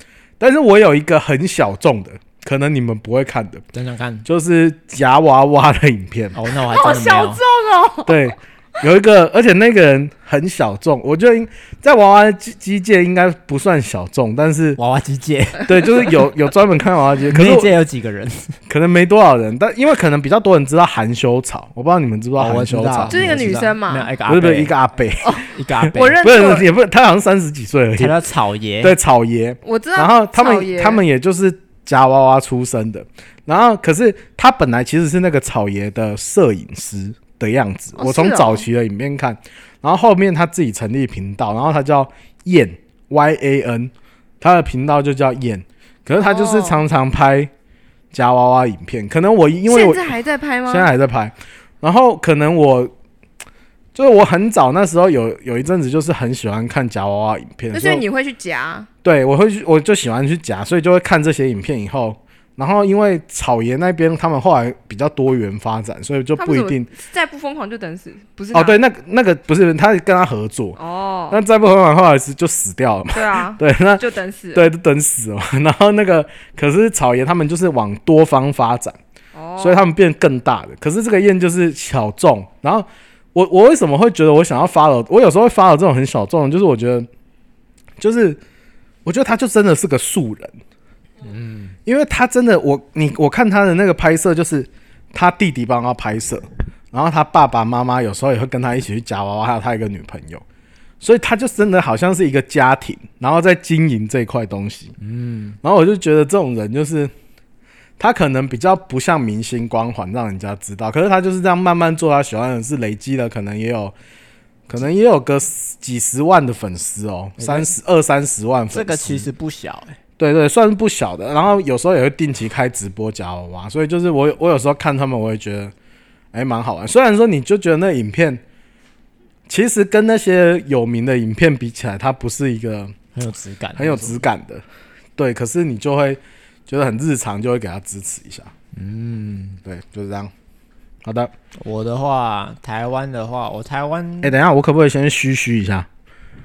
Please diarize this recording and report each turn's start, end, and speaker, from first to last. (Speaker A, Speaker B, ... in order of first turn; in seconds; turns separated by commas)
Speaker A: 0.4-3.6, Speaker B: 3.7-4.2, Speaker A: 4.2-6.4, Speaker B: 6.3-7.4, Speaker C: 6.7-8.2, Speaker A: 8.1-14.8, Speaker B: 14.8-16.1, Speaker A: 15.6-17.7, Speaker B: 17.2-18.6, Speaker A: 18.7-23.5, Speaker B: 22.4-24.7, Speaker C: 23.1-24.1, Speaker A: 24.2-28.2, Speaker C: 25.2-26.7, Speaker B: 25.4-26.2, Speaker B: 28.0-28.9, Speaker A: 28.8-47.5, Speaker C: 29.6-31.0, Speaker C: 38.0-38.7, Speaker C: 46.1-46.8, Speaker A: 48.1-50.1, Speaker C: 49.7-50.9, Speaker A: 50.7-52.9, Speaker A: 53.9-58.0, Speaker C: 57.7-58.9, Speaker A: 59.0-66.9, Speaker C: 66.4-68.8, Speaker A: 68.5-70.8, Speaker C: 70.8-71.4, Speaker A: 71.3-79.0, Speaker C: 73.1-74.7, Speaker C: 79.3-79.9, Speaker A: 79.6-87.1, Speaker A: 88.0-88.4, Speaker A: 89.0-90.6, Speaker B: 91.2-91.8, Speaker A: 91.8-100.4, Speaker A: 101.0-104.9, Speaker B: 105.0-105.6, Speaker A: 105.6-107.1, Speaker A: 108.0-113.9, Speaker A: 114.7-119.3, Speaker B: 117.4-117.7, Speaker B: 118.7-120.0, Speaker A: 120.2-125.7, Speaker A: 126.3-128.4, Speaker A: 129.5-132.9, Speaker B: 133.1-134.2, Speaker A: 133.8-134.6, Speaker A: 135.2-138.5, Speaker B: 138.7-139.6, Speaker A: 139.6-140.3, Speaker A: 141.0-141.3, Speaker B: 141.6-144.3, Speaker A: 144.2-145.9